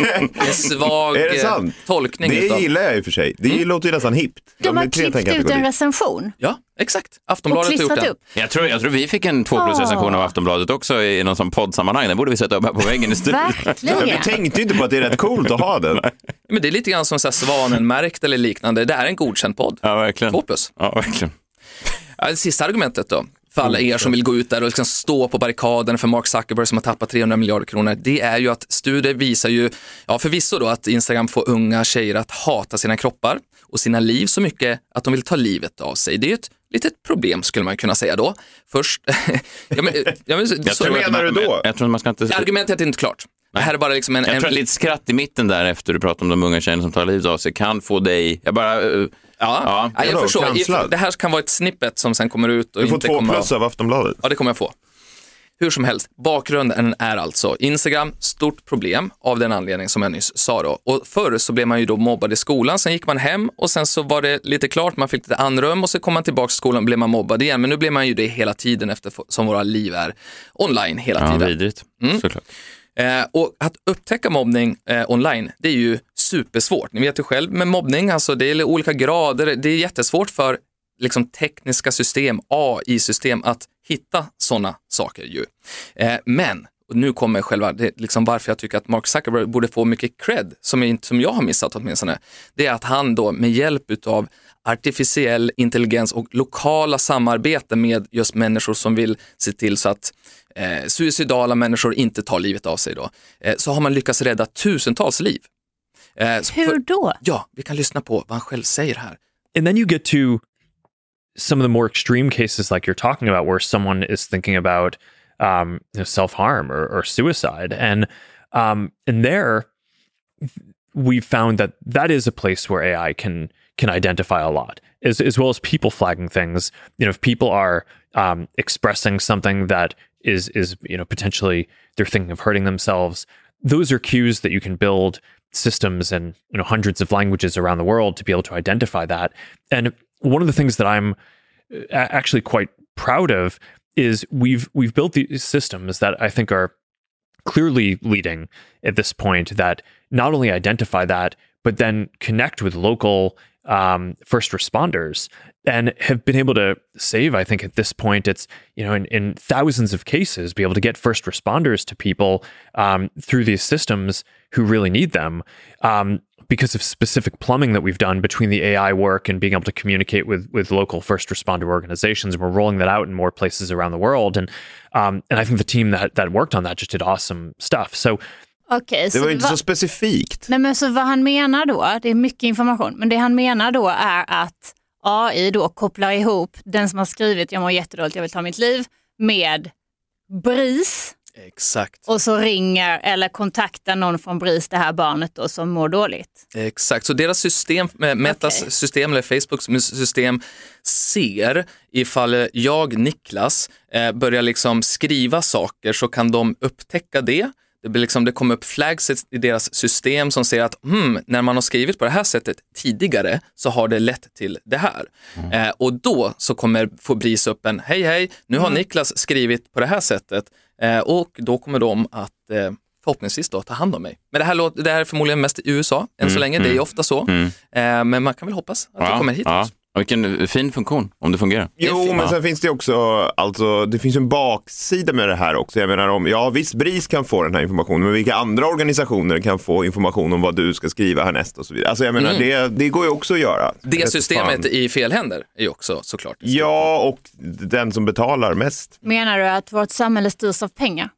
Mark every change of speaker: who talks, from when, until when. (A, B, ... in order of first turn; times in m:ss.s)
0:00.4-0:02.7 A
0:01.1-0:05.7 B
0:04.6-0:06.3 C
0:06.4-0:08.1 A
0:07.5-0:08.2 C
0:08.4-0:14.0 D
0:09.5-0:10.3 C
0:13.2-0:14.4 C
0:13.9-0:16.0 B
0:16.5-0:20.7 A
0:19.8-0:21.3 D
0:22.2-0:41.2 A
0:40.6-0:42.5 D
0:40.8-0:41.7 B
0:42.3-0:44.6 A
0:44.2-0:50.0 D
0:49.4-0:53.5 A
0:50.0-0:50.9 B
0:52.8-0:54.2 B
0:54.2-0:54.7 A
0:55.6-1:12.2 A
1:11.2-1:12.4 D
1:13.0-1:45.4 A
1:46.2-1:49.2 A
1:46.5-1:47.2 C
1:49.6-1:50.4 E
1:51.4-1:59.7 E
2:00.9-2:21.2 E
2:21.7-2:26.7 E
2:27.4-2:58.2 E
2:58.7-2:59.6 C
2:59.1-3:00.5 B
3:00.5-3:09.7 C
3:10.3-3:11.2 C
3:11.4-3:12.0 A
3:12.1-3:16.4 C
3:16.5-3:49.7 A
3:18.3-3:18.6 C
3:46.2-3:47.5 D
3:49.0-3:52.4 D
3:51.8-4:04.7 B
3:51.8-3:52.2 A
4:02.2-4:02.5 A
4:03.8-4:06.9 A
4:06.4-4:09.0 B
4:09.0-4:11.1 C